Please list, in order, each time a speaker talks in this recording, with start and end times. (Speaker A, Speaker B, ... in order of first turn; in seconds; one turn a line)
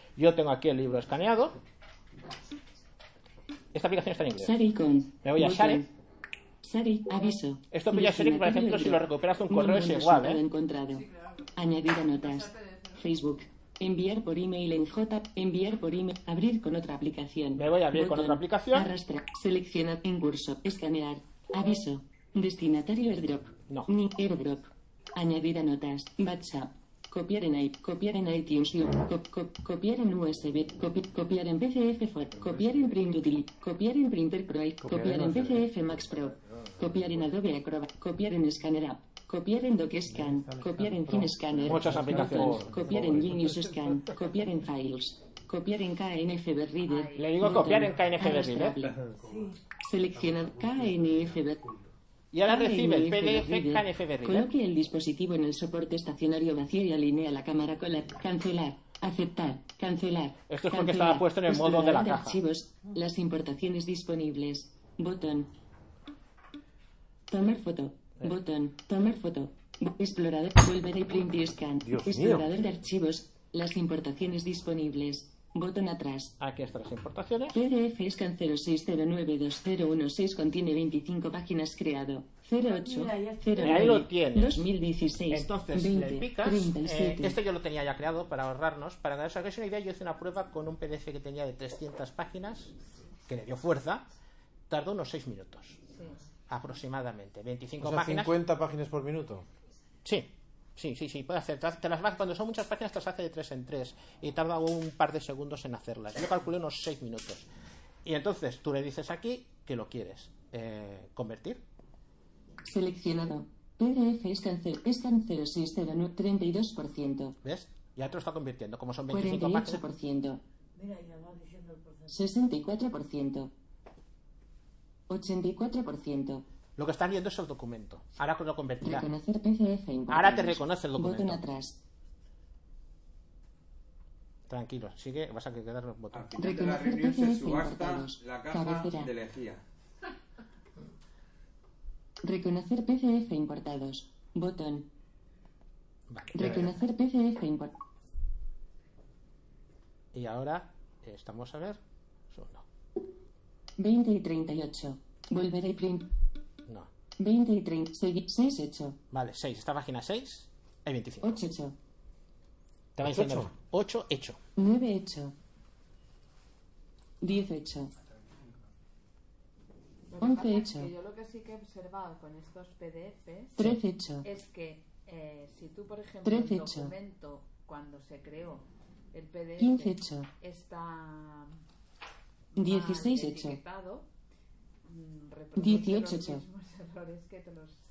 Speaker A: 0.2-1.6
Speaker A: 3.7-4.5
Speaker B: 4.4-5.9
Speaker A: 5.2-5.8
Speaker B: 6.6-49.0
Speaker A: 7.7-10.4
Speaker A: 17.6-18.9
Speaker C: 34.8-35.6
Speaker C: 40.2-43.9
Speaker A: 41.6-42.8
Speaker D: 46.9-47.5
Speaker A: 47.1-48.9
Speaker E: 49.1-49.6
Speaker B: 49.7-51.6
Speaker A: 52.3-54.5
Speaker B: 52.4-65.5
Speaker A: 60.5-62.4
Speaker B: 67.3-76.3
Speaker C: 71.8-72.5
Speaker A: 76.4-77.6
Speaker B: 77.5-87.4
Speaker E: 82.6-83.9
Speaker A: 83.6-84.7
Speaker A: 85.3-92.7
Speaker A: 93.3-94.0
Speaker A: 94.7-95.8
Speaker A: 96.5-98.3
Speaker C: 97.8-99.4
Speaker A: 100.0-107.5
Speaker A: 108.0-111.6
Speaker B: 112.6-117.3
Speaker A: 117.4-119.8
Speaker B: 119.1-120.4
Speaker E: 120.8-122.2
Speaker B: 122.1-123.5
Speaker B: 125.1-126.4
Speaker A: 126.8-129.1
Speaker B: 128.8-131.8
Speaker A: 130.1-131.4
Speaker A: 134.5-136.4
Speaker F: 136.1-139.6
Speaker B: 136.4-139.1
Speaker B: 142.2-144.8
Speaker A: 146.1-146.7
Speaker B: 146.3-147.7
Speaker C: 146.4-146.7
Speaker A: 150.1-151.8
Speaker A: 152.3-152.6
Speaker B: 153.8-156.1
Speaker B: 157.2-159.0
Speaker A: 159.1-161.4
Speaker B: 161.2-161.7
Speaker A: 162.9-164.4
Speaker C: 163.0-163.5
Speaker B: 164.6-165.3
Speaker B: 167.2-167.9
Speaker D: 170.1-181.6
Speaker B: 170.2-170.9
Speaker B: 173.6-174.3
Speaker B: 176.2-176.9
Speaker B: 179.6-180.3
Speaker D: 182.5-184.0
Speaker B: 182.6-183.6
Speaker D: 184.8-187.8
Speaker B: 185.6-186.4